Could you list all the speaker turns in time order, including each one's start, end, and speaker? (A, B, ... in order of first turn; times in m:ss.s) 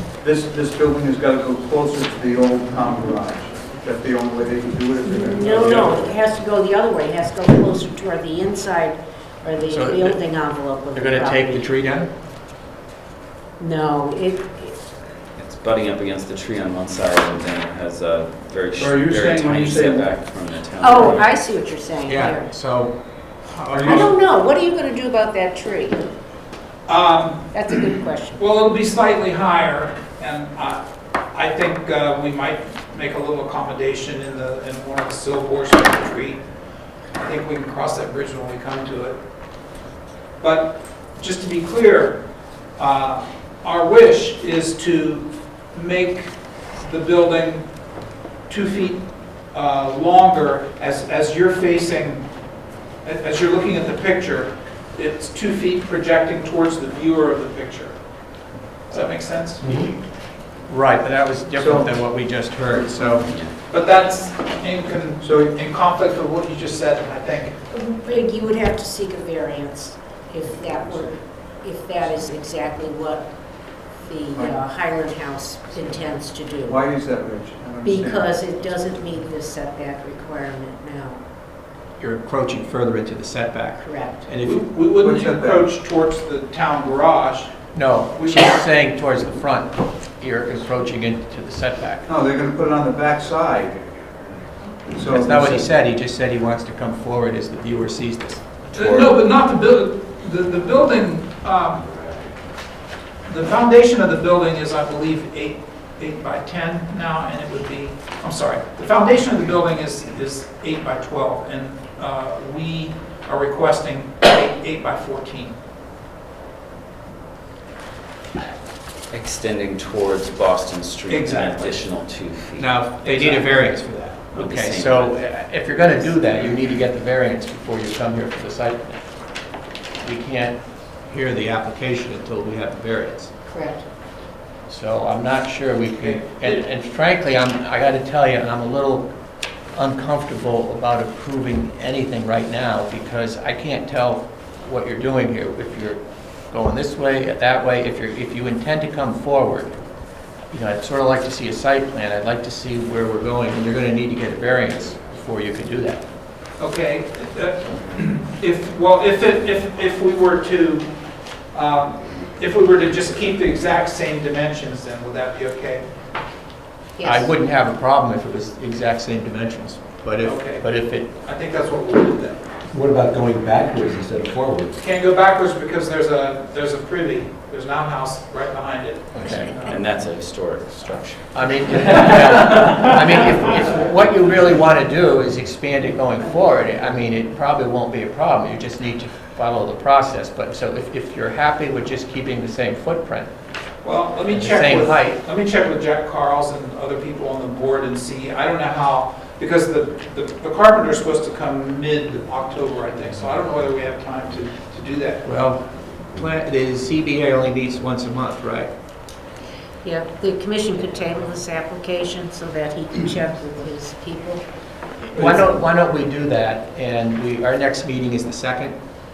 0:00.2-0:06.2 A
0:05.0-0:11.7 B
0:09.7-0:10.3 C
0:10.9-0:12.1 C
0:13.6-0:14.8 B
0:15.4-0:21.3 D
0:18.8-0:20.1 A
0:20.8-0:22.5 B
0:22.0-0:24.1 C
0:23.7-0:24.0 A
0:23.8-0:26.1 B
0:26.9-0:30.8 E
0:27.5-0:28.5 B
0:31.3-0:36.4 E
0:37.2-0:39.2 E
0:40.4-0:42.2 E
0:42.8-0:47.7 E
0:48.5-0:52.3 E
0:53.0-0:58.0 E
0:58.9-0:59.6 E
0:58.9-1:00.0 C
1:00.6-1:03.4 C
1:01.6-1:01.9 A
1:03.7-1:07.6 E
1:05.2-1:05.5 A
1:07.7-1:16.8 B
1:16.7-1:18.4 A
1:17.8-1:21.2 B
1:22.0-1:24.6 C
1:23.8-1:24.3 B
1:24.4-1:28.6 E
1:25.0-1:25.7 A
1:27.7-1:32.1 C
1:32.1-1:33.9 A
1:34.9-1:35.7 A
1:35.0-1:39.2 C
1:38.7-1:41.9 E
1:43.3-1:55.6 E
1:59.1-2:02.9 D
2:01.1-2:01.9 E
2:02.6-2:09.1 C
2:03.0-2:03.8 E
2:04.4-2:05.2 D
2:10.0-2:13.3 C
2:13.5-2:13.9 B
2:14.7-2:19.1 C
2:16.0-2:16.6 E
2:19.7-2:29.8 C
2:30.5-2:36.1 C
2:36.6-2:41.0 E
2:41.5-2:45.9 E
2:47.0-2:47.3 B
2:47.0-2:51.2 C
2:50.2-2:52.6 E
2:52.7-2:54.8 F
2:54.8-2:59.8 E
2:59.1-2:59.5 C
2:59.2-2:59.8 B
2:59.6-3:02.9 D
3:01.3-3:13.3 C
3:02.0-3:02.8 F
3:13.8-3:25.3 E
3:14.3-3:15.2 C
3:25.2-3:28.7 C
3:29.8-3:34.4 B
3:35.0-3:38.8 C
3:35.2-3:35.4 E